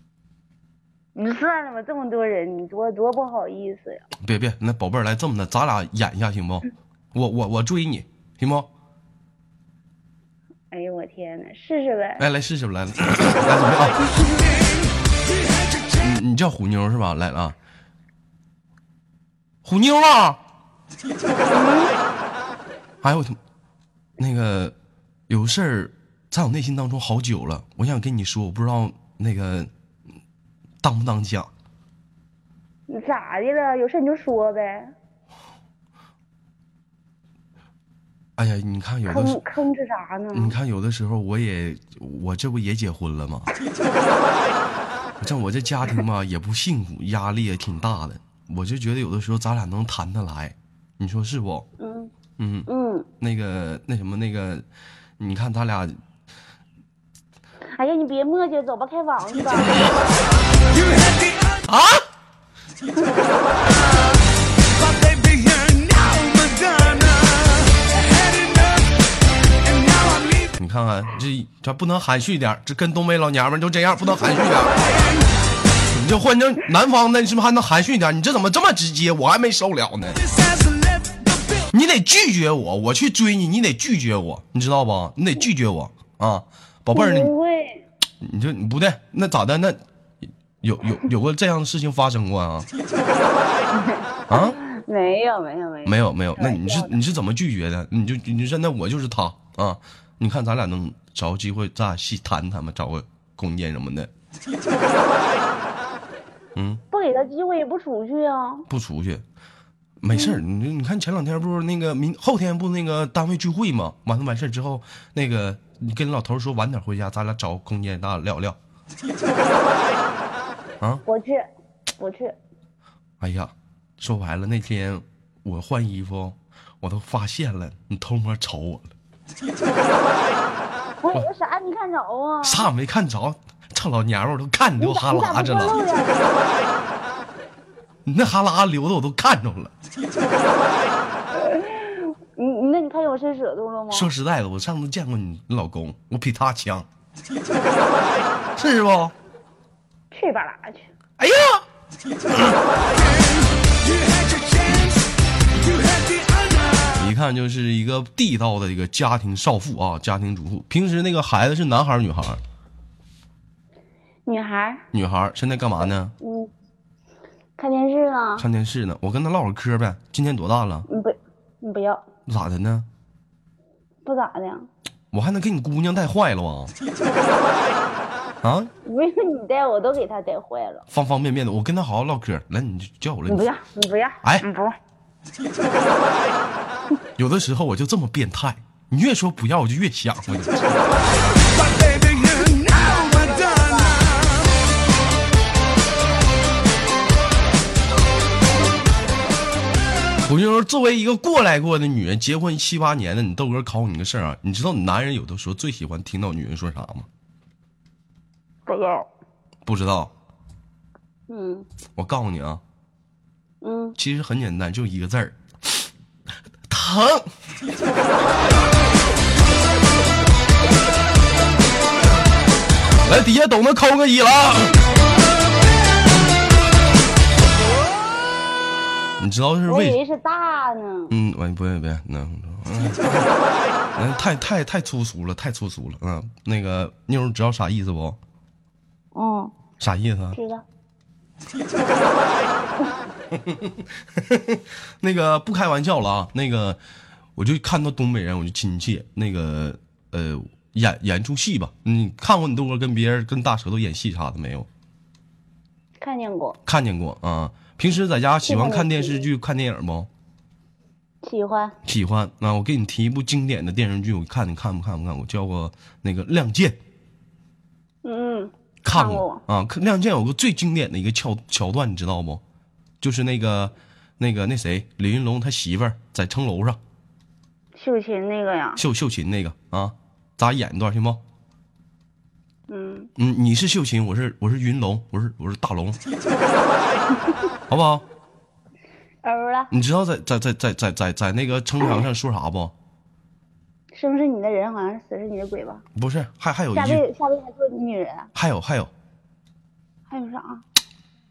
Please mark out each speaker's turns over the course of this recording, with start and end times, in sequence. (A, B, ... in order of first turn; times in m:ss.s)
0:01.1-0:04.0 A
0:04.2-0:08.7 B
0:10.7-0:12.2 A
0:12.2-0:14.1 B
0:15.5-0:15.9 C
0:16.0-0:17.5 B
0:19.6-0:20.4 B
0:21.5-0:21.9 A
0:23.0-0:23.4 B
0:24.2-0:24.7 B
0:25.3-0:29.7 B
0:30.8-0:31.5 B
0:32.9-0:34.9 A
0:38.4-0:39.4 B
0:39.1-0:40.6 A
0:40.3-0:43.5 B
0:45.2-0:51.7 B
0:51.8-0:52.1 A
0:52.4-0:52.7 B
0:52.7-0:53.1 A
0:53.2-0:54.6 B
0:55.2-0:55.9 B
0:57.7-0:59.9 A
1:00.7-1:01.6 C
1:01.7-1:02.0 B
1:04.7-1:09.0 C
1:09.6-1:10.5 C
1:10.6-1:14.8 B
1:15.8-1:20.2 B
1:20.2-1:21.7 C
1:21.7-1:27.3 B
1:26.9-1:27.8 A
1:28.2-1:29.8 B
1:30.6-1:32.7 B
1:33.7-1:37.0 A
1:34.3-1:34.6 B
1:35.8-1:44.1 B
1:46.6-1:46.8 B
1:46.9-1:48.7 A
1:48.7-1:49.2 B
1:50.0-1:58.6 B
1:50.1-1:50.4 A
2:01.0-2:02.4 A
2:03.2-2:08.9 B
2:11.0-2:12.7 A
2:12.4-2:15.8 B
2:14.8-2:16.2 A
2:18.0-2:19.7 B
2:21.3-2:24.1 A
2:23.9-2:26.9 B
2:28.6-2:29.1 B
2:30.1-2:30.9 A
2:31.2-2:31.6 B
2:33.0-2:35.0 C
2:35.6-2:37.0 C
2:37.0-2:42.4 B
2:44.2-2:44.8 A
2:44.9-2:46.1 B
2:46.2-2:46.5 A
2:47.6-2:48.4 A
2:48.4-2:50.8 B
2:50.9-2:52.0 A
2:52.3-2:52.8 B
2:54.0-2:54.7 A
2:55.1-2:56.7 B
2:58.4-2:58.7 B
2:58.8-3:00.8 A
3:00.9-3:03.5 B
3:03.3-3:04.8 A
3:07.2-3:10.9 B
3:11.5-3:14.5 C
3:12.6-3:14.1 A
3:20.3-3:27.1 B
3:28.7-3:29.1 A
3:29.6-3:30.1 B
3:31.3-3:31.6 A
3:32.0-3:32.6 B
3:33.6-3:34.0 A
3:34.0-3:35.4 B
3:36.7-3:37.3 B
3:43.0-3:44.8 B
3:49.2-3:50.0 B
3:49.7-3:51.1 A
3:51.1-3:53.3 B
3:54.0-3:58.2 B
3:59.1-3:59.5 A
3:59.8-4:00.4 B
4:00.3-4:00.6 A
4:03.3-4:06.8 B
4:07.4-4:14.7 B
4:16.0-4:16.6 A
4:16.6-4:20.1 B
4:18.4-4:19.3 A
4:21.2-4:21.8 A
4:21.8-4:26.8 B
4:28.0-4:29.4 A
4:28.8-4:32.4 B
4:33.0-4:36.8 B
4:37.7-4:38.8 A
4:38.8-4:41.2 B
4:42.7-4:43.1 A
4:43.2-4:46.0 B
4:47.7-4:48.0 B
4:49.2-4:49.7 A
4:49.7-4:52.7 B
4:53.9-4:55.8 A
4:56.0-4:57.0 B
4:56.7-4:58.3 A
4:58.4-4:58.9 B
5:00.1-5:00.6 A